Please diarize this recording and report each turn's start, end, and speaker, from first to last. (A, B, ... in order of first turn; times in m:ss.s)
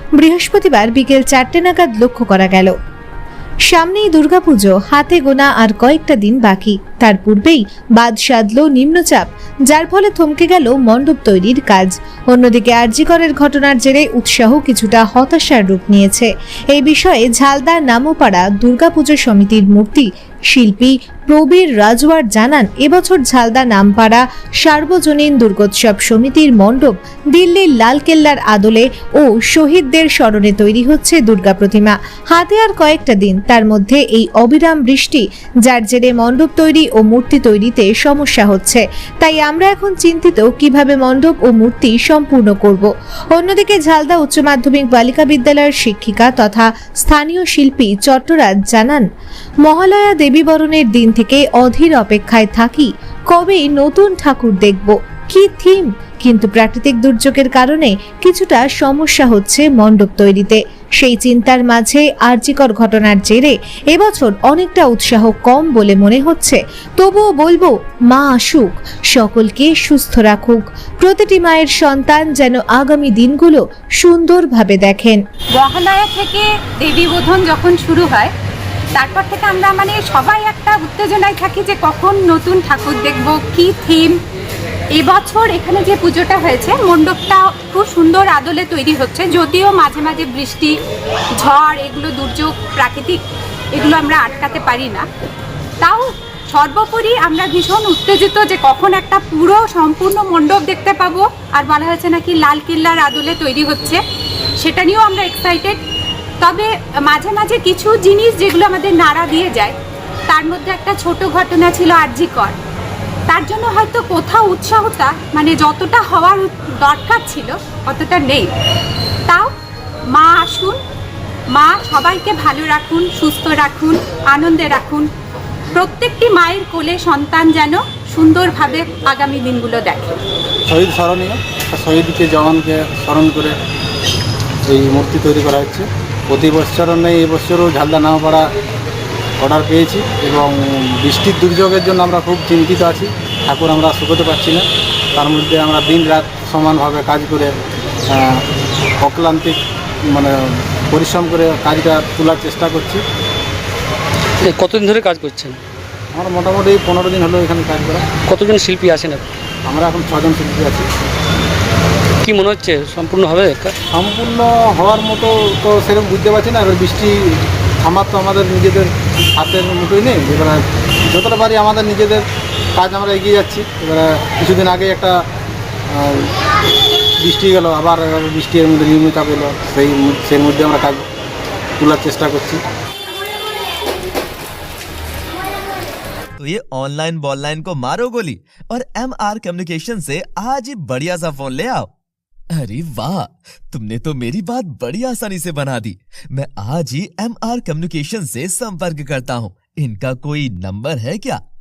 0:00.2-0:02.7 A
0:03.7-0:49.0 A
0:49.7-1:15.2 A
1:15.6-1:18.3 B
1:19.0-1:24.2 B
1:25.0-1:30.8 B
1:31.4-1:33.2 B
1:33.7-1:35.0 B
1:35.8-1:44.0 B
1:44.6-1:45.8 B
1:46.4-1:49.8 B
1:50.3-1:52.6 B
1:53.3-1:58.5 B
2:00.1-2:00.8 B
2:01.5-2:05.1 B
2:05.7-2:10.2 B
2:10.7-2:13.6 C
2:14.7-2:18.5 C
2:19.4-2:27.5 C
2:28.1-2:28.4 C
2:29.0-2:29.6 C
2:30.1-2:30.4 C
2:30.9-2:33.0 C
2:34.4-2:35.6 D
2:36.1-2:38.1 C
2:38.3-2:39.3 D
2:39.7-2:40.9 C
2:42.2-2:43.8 D
2:43.9-2:52.2 C
2:52.8-2:55.1 C
2:55.9-2:56.3 C
2:57.2-3:01.0 C
3:01.8-3:02.6 C
3:06.4-3:11.9 E
3:12.5-3:21.4 E